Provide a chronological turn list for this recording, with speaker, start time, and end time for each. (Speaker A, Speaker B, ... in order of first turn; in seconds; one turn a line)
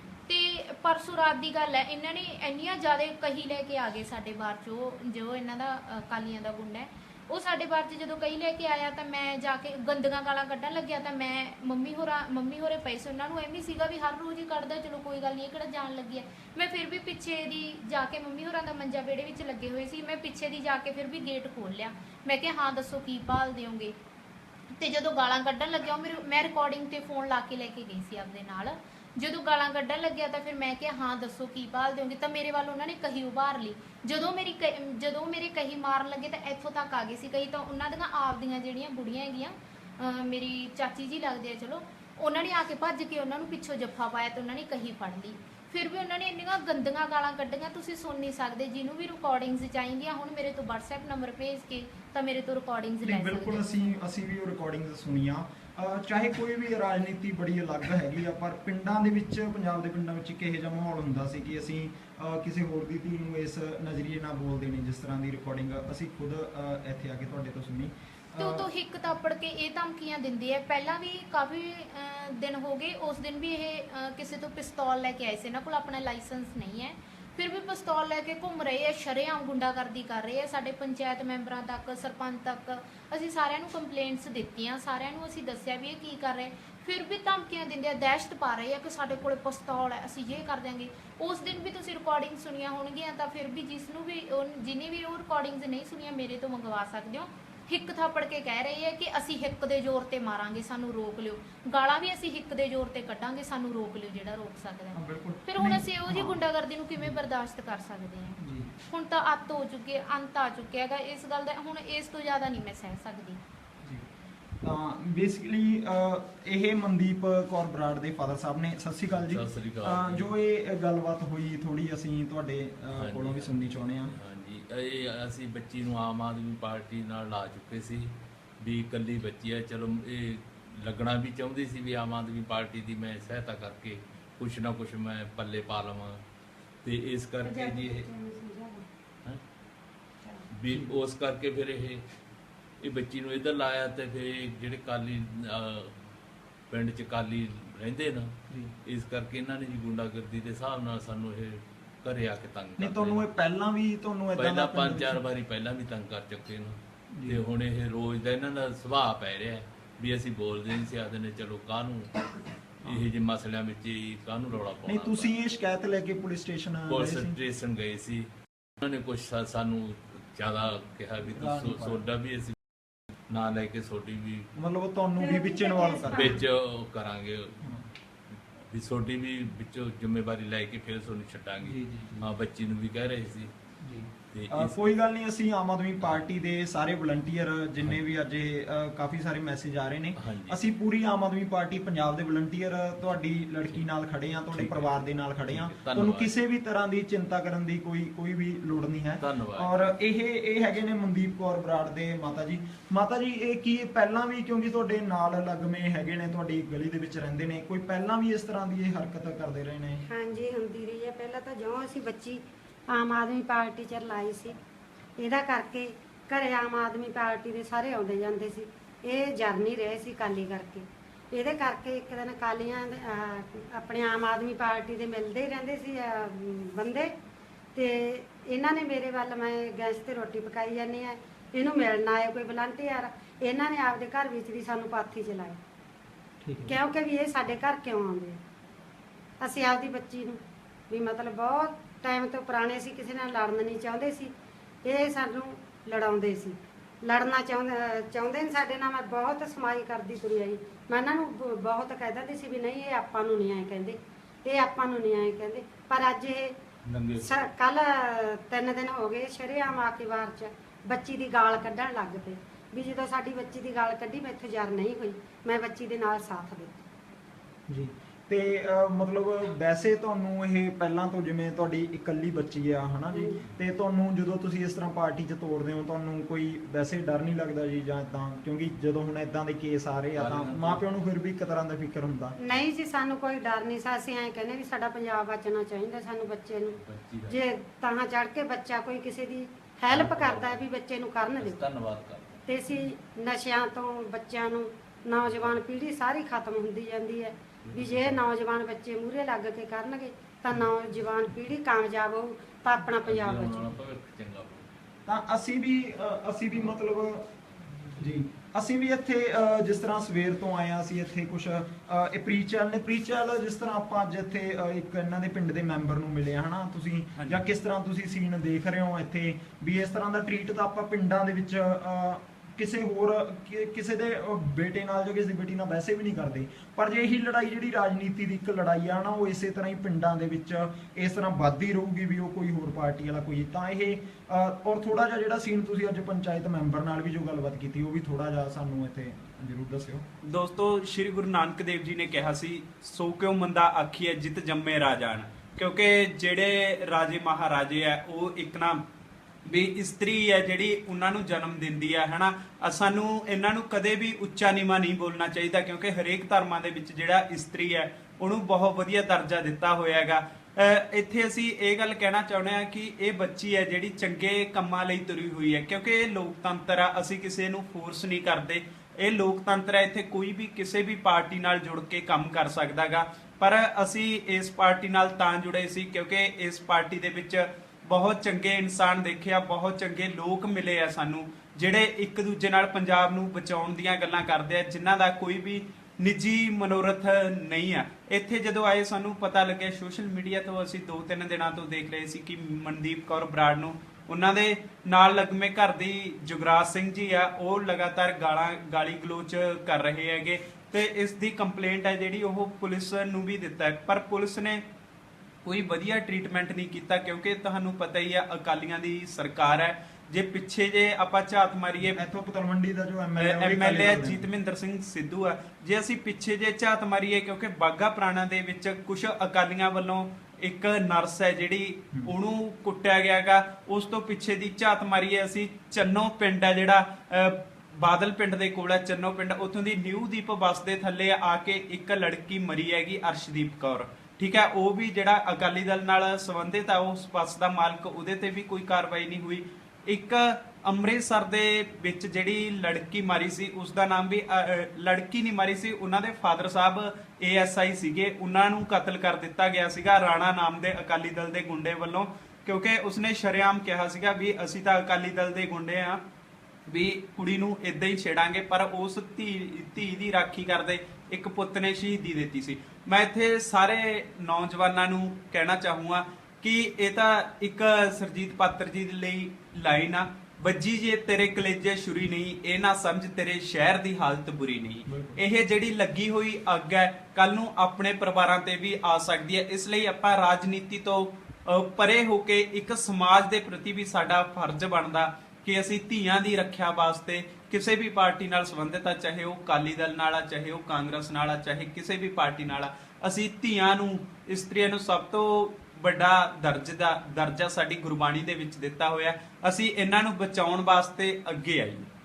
Speaker A: 0.3-24.0
Speaker A: 24.7-54.0
Speaker B: 53.0-68.7
Speaker A: 68.4-108.4
Speaker B: 104.9-106.4
Speaker B: 108.4-108.7
Speaker A: 108.9-113.4
Speaker B: 114.6-124.2
Speaker C: 119.1-120.3
Speaker C: 122.9-136.2
Speaker C: 136.8-138.1
Speaker D: 137.4-138.9
Speaker C: 140.5-142.0
Speaker C: 142.8-145.9
Speaker C: 146.7-148.3
Speaker C: 148.9-153.3
Speaker B: 152.8-155.2
Speaker C: 154.4-162.3
Speaker B: 157.1-157.4
Speaker C: 162.8-165.3
Speaker B: 164.9-167.4
Speaker C: 166.9-168.3
Speaker C: 168.8-172.6
Speaker B: 171.3-172.1
Speaker C: 173.3-174.5
Speaker B: 174.6-176.4
Speaker D: 175.2-176.4
Speaker C: 176.1-177.7
Speaker C: 178.7-183.5
Speaker B: 181.7-182.3
Speaker B: 183.8-210.0
Speaker C: 184.3-184.8
Speaker C: 186.0-186.3
Speaker C: 190.2-190.6
Speaker C: 194.5-196.3
Speaker C: 199.2-199.7
Speaker D: 210.1-214.6
Speaker D: 215.2-227.1
Speaker D: 227.8-235.6
Speaker B: 236.4-236.8
Speaker D: 236.6-238.4
Speaker D: 239.4-244.3
Speaker D: 244.8-256.6
Speaker C: 256.9-257.5
Speaker D: 257.2-266.8
Speaker B: 267.7-282.4
Speaker D: 273.1-273.4
Speaker C: 280.1-280.9
Speaker D: 282.4-291.6
Speaker C: 286.7-287.4
Speaker C: 289.9-290.7
Speaker C: 291.3-292.5
Speaker D: 292.4-303.7
Speaker C: 295.2-295.7
Speaker C: 297.6-298.3
Speaker C: 302.9-304.7
Speaker B: 305.1-307.3
Speaker B: 307.9-340.1
Speaker E: 317.2-317.4
Speaker E: 340.3-348.8
Speaker E: 349.5-404.6
Speaker E: 405.4-412.0
Speaker B: 411.8-414.2
Speaker E: 413.2-456.0
Speaker E: 456.7-501.9
Speaker B: 474.9-475.2